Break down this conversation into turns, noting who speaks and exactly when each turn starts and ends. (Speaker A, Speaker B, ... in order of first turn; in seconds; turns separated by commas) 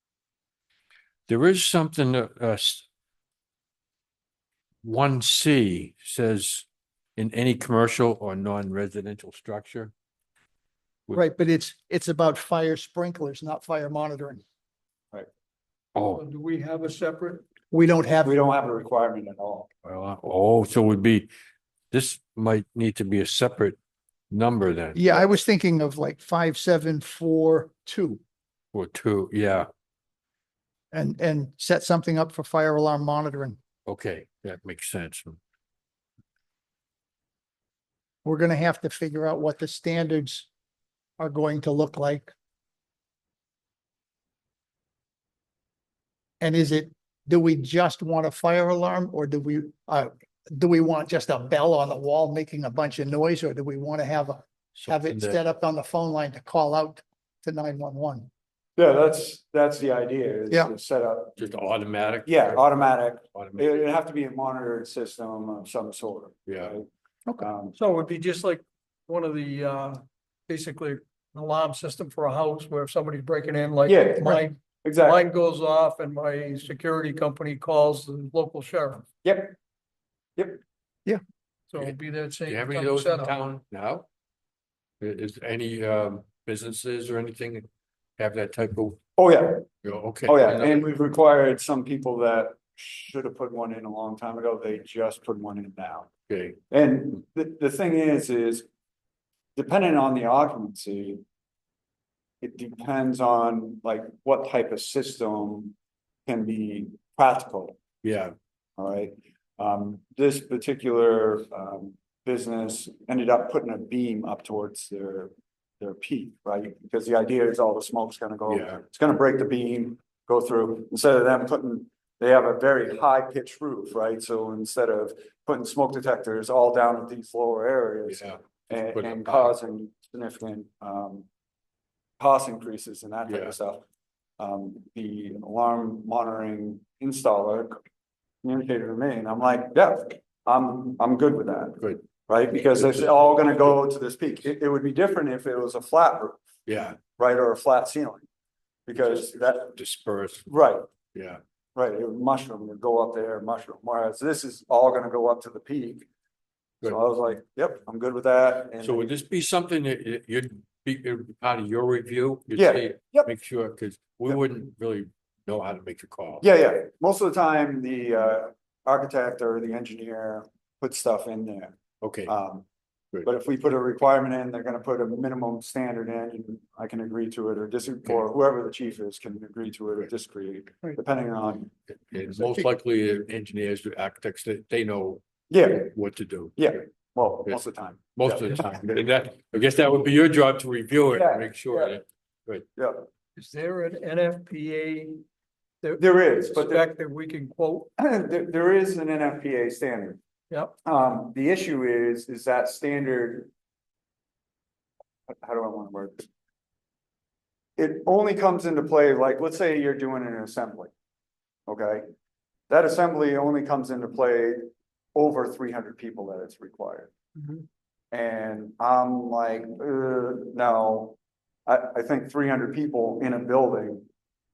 Speaker A: 1.3-2.8, Speaker A: 4.8-6.7, Speaker A: 7.2-9.9, Speaker B: 11.1-14.4, Speaker A: 15.9-16.2, Speaker C: 16.1-17.4, Speaker B: 17.7-18.4, Speaker D: 18.2-19.7, Speaker A: 19.8-21.3, Speaker A: 21.9-23.8, Speaker A: 24.3-25.0, Speaker B: 24.9-28.2, Speaker A: 28.7-29.7, Speaker B: 30.9-33.6, Speaker A: 33.9-35.4, Speaker B: 38.2-40.5, Speaker B: 41.2-42.3, Speaker B: 46.4-58.3, Speaker A: 54.8-55.4, Speaker D: 58.8-61.4, Speaker A: 61.4-62.8, Speaker D: 62.2-66.9, Speaker A: 63.3-63.7, Speaker D: 67.4-67.7, Speaker C: 67.7-79.0, Speaker D: 73.8-74.3, Speaker D: 74.8-75.2, Speaker D: 79.2-79.5, Speaker C: 81.7-83.3, Speaker A: 81.8-84.0, Speaker A: 85.0-87.7, Speaker A: 88.2-89.0, Speaker D: 89.2-89.7, Speaker A: 89.8-90.8, Speaker D: 90.2-96.1, Speaker A: 96.3-96.6, Speaker D: 96.7-98.7, Speaker D: 99.5-101.2, Speaker D: 102.4-105.7, Speaker D: 106.3-107.8, Speaker A: 108.0-108.3, Speaker D: 108.8-131.3, Speaker A: 118.5-118.8, Speaker A: 128.1-129.5, Speaker D: 132.2-133.8, Speaker A: 133.3-133.5, Speaker D: 134.4-137.8, Speaker D: 138.4-146.4, Speaker A: 146.7-147.0, Speaker D: 147.2-148.2, Speaker D: 148.9-149.8, Speaker A: 149.7-150.5, Speaker D: 150.5-150.8, Speaker A: 151.1-151.4, Speaker D: 151.7-156.1, Speaker D: 156.8-159.1, Speaker A: 158.8-166.4, Speaker D: 162.5-163.3, Speaker D: 166.4-172.7, Speaker A: 172.0-172.3, Speaker D: 173.2-181.7, Speaker A: 182.1-185.2, Speaker D: 185.5-185.9, Speaker A: 185.8-186.8, Speaker D: 186.6-188.4, Speaker A: 188.1-192.7, Speaker D: 191.1-191.9, Speaker D: 192.7-193.1, Speaker C: 193.4-195.2, Speaker C: 195.8-197.9, Speaker D: 196.0-196.8, Speaker D: 198.0-200.2, Speaker D: 200.8-203.5, Speaker D: 205.3-206.3, Speaker D: 207.8-210.9, Speaker D: 211.7-212.1, Speaker D: 212.7-217.1, Speaker D: 218.1-224.0